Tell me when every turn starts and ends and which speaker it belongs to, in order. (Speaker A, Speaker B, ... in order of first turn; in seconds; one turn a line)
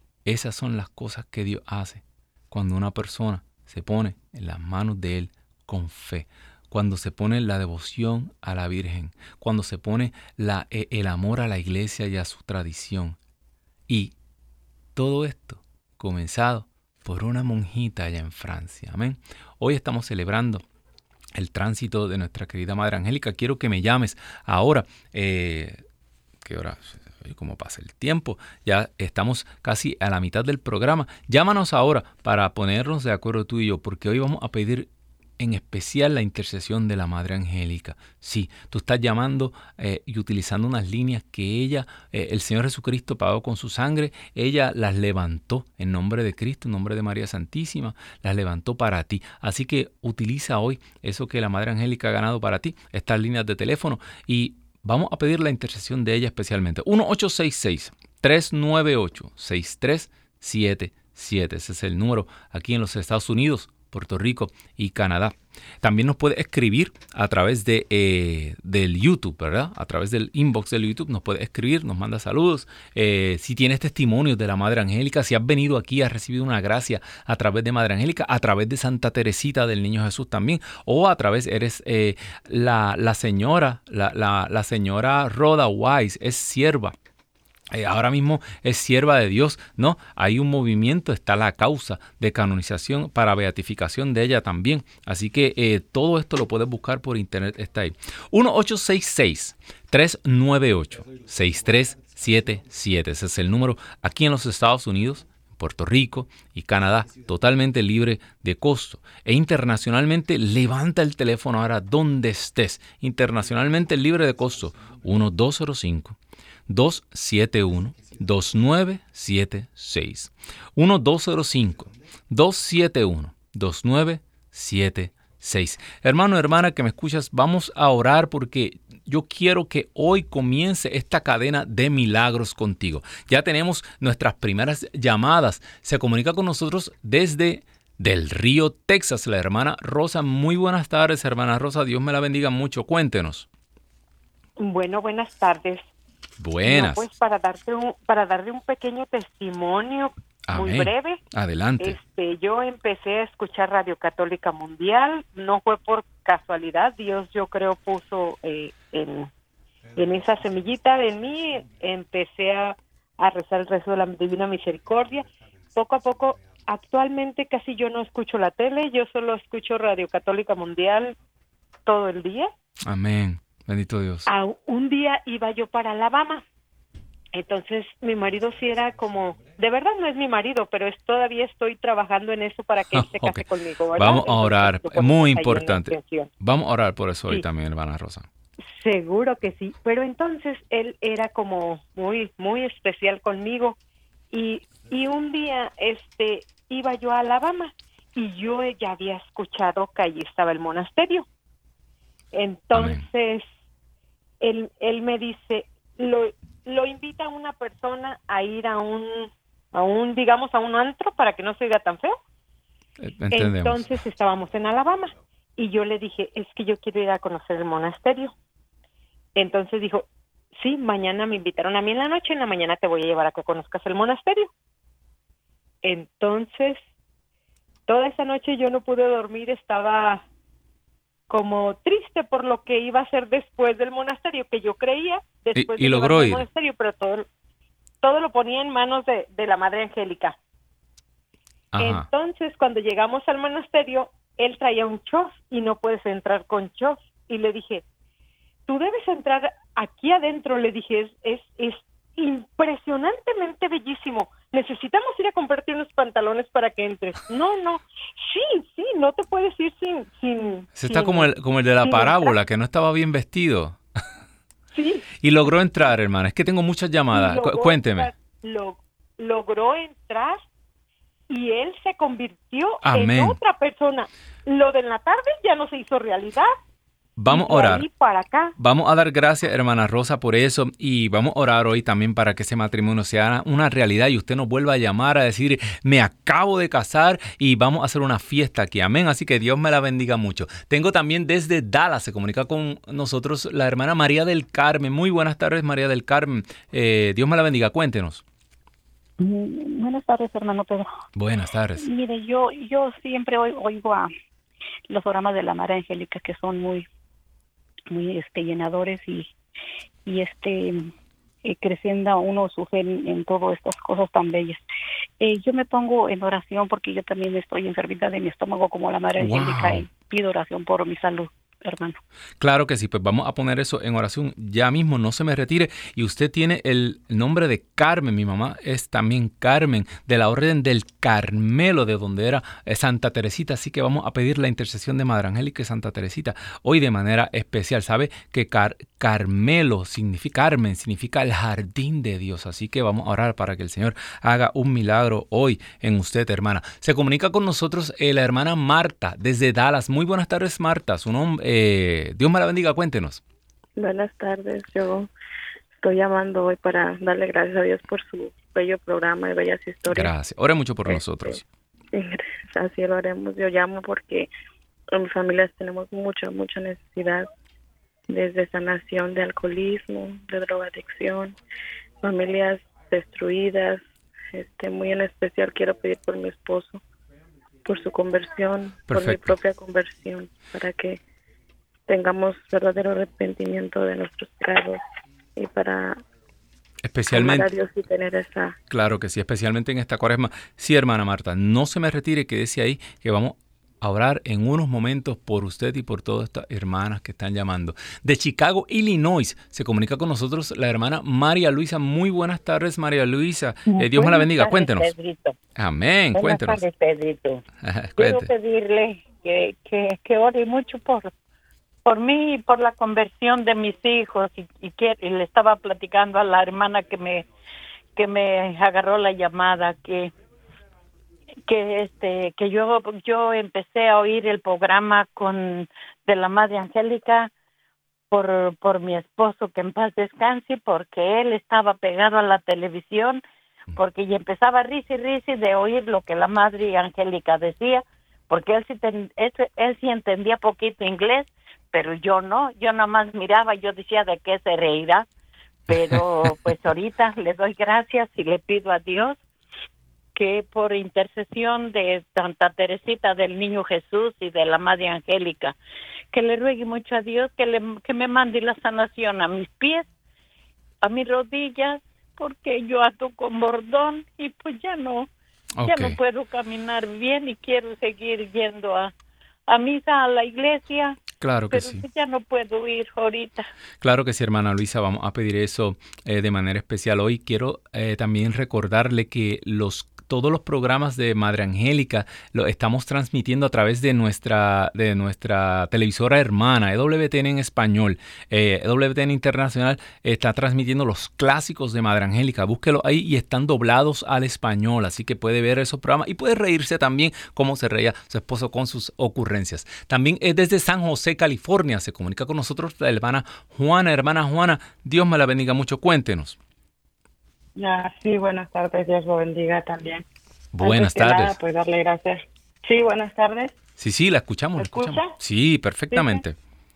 Speaker A: 0.2-13.2
Speaker A: 13.9-14.1
Speaker A: 15.0-20.6
Speaker A: 21.4-25.8
Speaker A: 26.4-87.0
Speaker A: 87.7-116.2
Speaker A: 116.7-143.5
Speaker B: 144.6-145.9
Speaker A: 146.4-147.1
Speaker B: 146.6-151.2
Speaker A: 150.5-152.0
Speaker B: 151.8-159.3
Speaker B: 159.9-171.1
Speaker B: 171.9-172.5
Speaker A: 172.9-174.3
Speaker B: 174.3-176.4
Speaker B: 177.3-186.3
Speaker A: 182.9-183.4
Speaker A: 183.9-188.3
Speaker B: 188.6-193.8
Speaker B: 194.3-201.3
Speaker B: 202.3-203.4
Speaker A: 202.7-203.1
Speaker B: 204.4-212.2
Speaker A: 213.0-213.9
Speaker B: 213.3-218.3
Speaker B: 219.4-224.5
Speaker B: 225.8-226.8
Speaker B: 227.9-230.2
Speaker B: 231.3-237.3
Speaker A: 235.6-236.4
Speaker B: 238.0-240.4
Speaker A: 241.7-242.1
Speaker B: 241.8-247.8
Speaker B: 248.7-261.3
Speaker A: 260.8-263.8
Speaker B: 261.8-262.3
Speaker B: 264.7-265.1
Speaker A: 265.2-268.1
Speaker B: 267.1-270.4
Speaker B: 271.3-276.5
Speaker A: 272.8-273.4
Speaker A: 277.2-277.9
Speaker B: 277.3-278.6
Speaker A: 278.6-298.2
Speaker C: 299.2-300.9
Speaker A: 301.2-301.9
Speaker C: 301.8-304.1
Speaker C: 304.9-306.9
Speaker C: 307.9-309.3
Speaker C: 310.1-310.9
Speaker C: 311.4-314.6
Speaker C: 315.2-322.0
Speaker A: 319.2-319.9
Speaker A: 322.4-353.2
Speaker D: 353.8-355.1
Speaker D: 355.8-360.1
Speaker A: 359.9-361.4
Speaker D: 360.9-361.3
Speaker D: 361.9-364.3
Speaker D: 364.9-367.3
Speaker D: 368.1-371.4
Speaker D: 372.0-376.8
Speaker D: 377.6-381.0
Speaker A: 378.9-379.4
Speaker D: 381.9-384.8
Speaker D: 385.4-386.0
Speaker A: 386.8-387.5
Speaker D: 387.1-388.6
Speaker A: 388.7-404.9
Speaker E: 403.8-405.4
Speaker A: 405.6-406.6
Speaker E: 406.1-407.4
Speaker A: 407.6-408.3
Speaker E: 408.0-411.1
Speaker E: 411.9-417.3
Speaker E: 417.9-420.1
Speaker E: 421.5-427.3
Speaker E: 428.1-433.2
Speaker E: 433.8-445.1
Speaker E: 445.7-449.2
Speaker A: 445.7-446.0
Speaker E: 450.1-455.6
Speaker E: 456.1-459.9
Speaker E: 460.8-465.1
Speaker A: 465.6-466.0
Speaker E: 465.7-468.9
Speaker E: 469.5-473.5
Speaker A: 471.2-471.9
Speaker A: 473.8-506.4
Speaker F: 507.6-510.1
Speaker A: 510.5-511.4
Speaker F: 510.6-513.6
Speaker A: 513.8-516.4
Speaker F: 514.6-515.1
Speaker F: 515.9-516.2